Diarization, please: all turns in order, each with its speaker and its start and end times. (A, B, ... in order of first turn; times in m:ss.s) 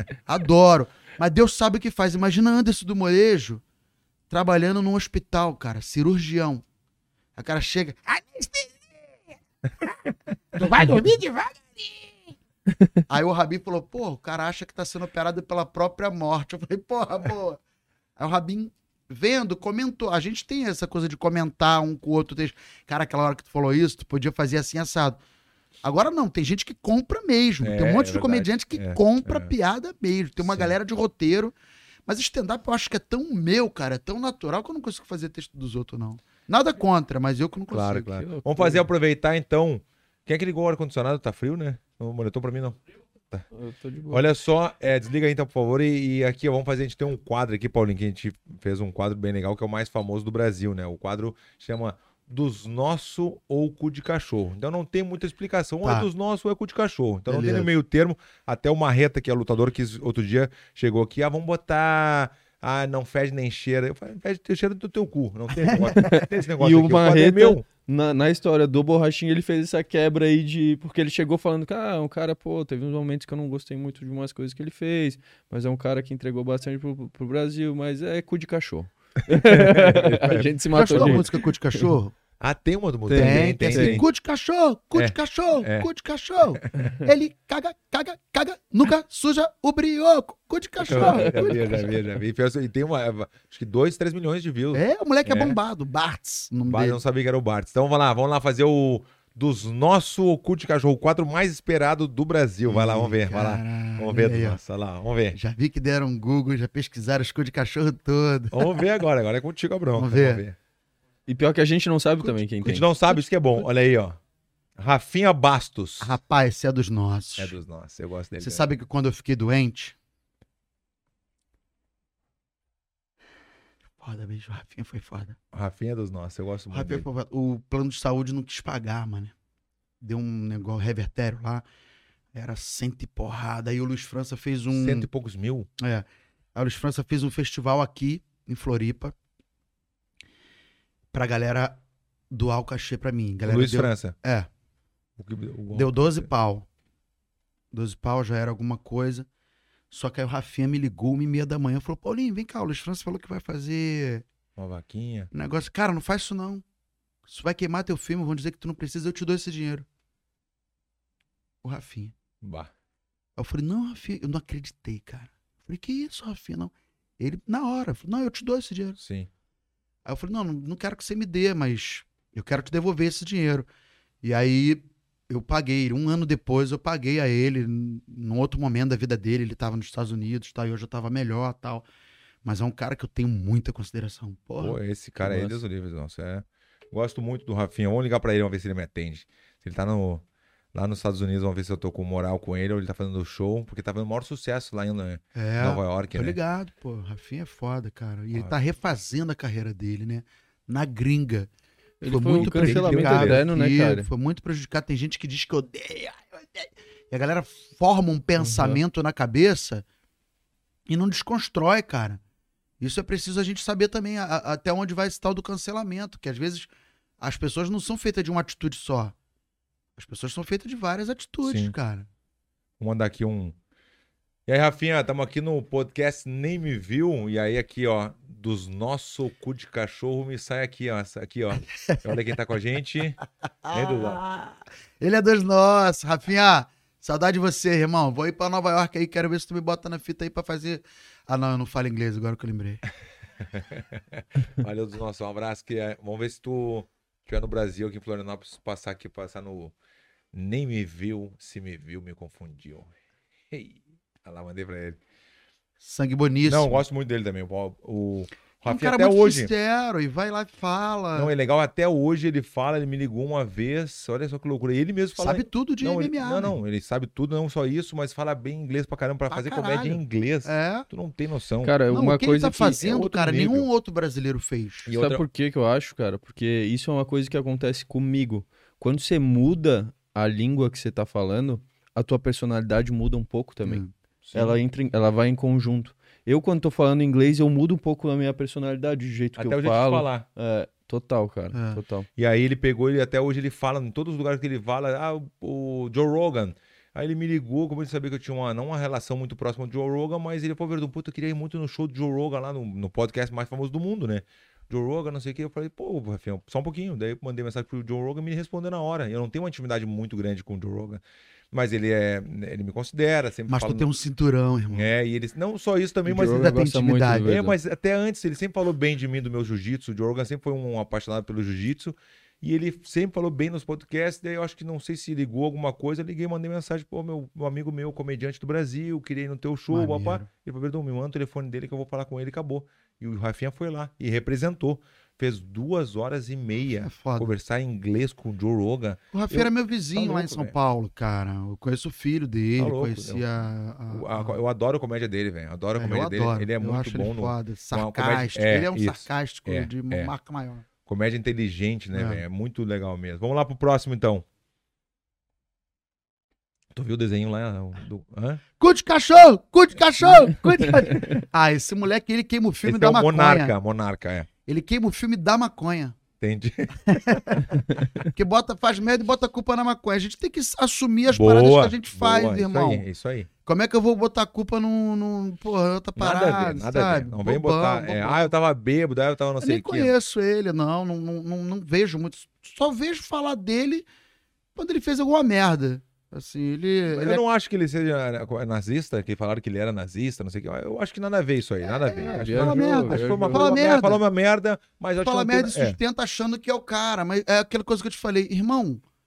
0:00.3-0:03.6 A
0:04.3-0:06.6 A
0:07.4-0:09.2 A
0:10.5-0:12.4 A
0:13.1-0:17.6 A
0:18.2-0:25.2 A
0:25.8-0:31.6 A
0:27.6-0:29.5 B
0:30.4-0:30.7 B
0:32.1-0:38.2 A
0:37.7-0:42.8 B
0:38.2-0:38.9 C
0:43.5-0:44.2 C
0:44.1-1:07.6 B
0:55.8-0:56.1 A
0:57.3-0:57.7 A
1:05.5-1:06.0 A
1:06.0-1:21.9 C
1:19.3-1:21.2 B
1:20.7-1:22.2 A
1:22.4-1:24.1 B
1:23.1-1:24.0 C
1:23.1-1:31.9 A
1:24.9-1:25.9 B
1:26.6-1:26.9 B
1:30.9-1:35.6 B
1:30.9-1:31.8 C
1:34.7-1:37.0 A
1:36.7-1:45.4 B
1:42.7-1:44.6 A
1:45.3-1:48.8 A
1:48.5-1:50.6 B
1:50.0-1:50.4 A
1:51.3-1:52.9 C
1:52.6-1:54.2 B
1:54.8-1:56.1 B
1:56.0-1:57.6 A
1:57.4-1:58.6 B
1:58.4-2:00.0 A
2:04.0-2:05.4 A
2:05.5-2:07.0 B
2:06.7-2:09.3 A
2:10.0-2:11.6 A
2:12.3-2:15.1 A
2:14.7-2:15.7 B
2:15.8-2:19.2 A
2:21.1-2:24.5 A
2:23.5-2:24.2 B
2:25.2-2:26.3 B
2:25.7-2:26.7 A
2:27.7-2:29.3 A
2:29.9-2:34.2 A
2:34.6-2:35.3 B
2:35.3-2:36.6 A
2:37.3-2:39.9 A
2:41.6-2:42.2 A
2:42.4-2:42.7 B
2:43.4-2:49.0 A
2:49.0-2:49.3 B
2:50.0-2:53.7 A
2:54.2-3:01.9 A
3:02.4-3:04.8 A
3:04.6-3:16.4 B
3:05.2-3:05.6 C
3:15.4-3:21.5 A
3:22.0-3:24.1 C
3:22.0-3:29.8 A
3:22.3-3:23.4 B
3:28.4-3:28.8 C
3:30.9-3:32.2 A
3:32.8-3:36.7 A
3:37.2-3:39.2 A
3:40.0-3:42.1 A
3:41.4-3:41.7 B
3:42.8-3:43.6 B
3:44.5-3:54.2 B
3:51.9-3:52.2 A
3:53.7-4:02.8 A
4:03.5-4:09.7 B
4:10.3-4:12.9 B
4:13.5-4:15.0 B
4:15.8-4:16.8 A
4:16.5-4:19.5 B
4:18.6-4:21.3 A
4:21.2-4:31.8 B
4:25.2-4:26.6 A
4:29.3-4:30.9 A
4:31.6-4:32.8 C
4:31.9-4:34.9 A
4:32.6-4:33.7 B
4:34.9-4:35.2 B
4:34.9-4:43.8 C
4:43.6-4:43.9 A
4:44.2-4:44.6 B
4:44.3-4:52.1 C
4:49.4-4:50.3 B
4:51.5-4:51.8 A
4:52.2-5:11.0 B
5:11.5-5:13.9 B
5:13.5-5:14.9 A
5:14.7-5:16.6 B
5:16.1-5:17.6 C
5:16.1-5:17.3 A
5:17.2-5:40.5 B
5:29.7-5:30.3 A
5:36.8-5:37.3 A
5:39.1-5:44.4 A
5:42.6-5:43.3 B
5:43.9-5:50.1 B
5:45.8-5:50.6 A
5:50.8-5:54.2 B
5:51.9-5:52.2 A
5:56.7-5:58.4 B
5:58.6-6:03.5 A
6:02.7-6:04.3 B
6:04.5-6:06.0 A
6:06.2-6:06.8 B
6:06.9-6:12.8 A
6:11.1-6:13.3 B
6:13.5-6:18.3 A
6:16.0-6:19.9 B
6:19.4-6:23.9 A
6:24.6-6:27.2 A
6:26.9-6:35.8 B
6:31.6-6:34.0 A
6:32.0-6:33.7 C
6:35.0-6:38.8 A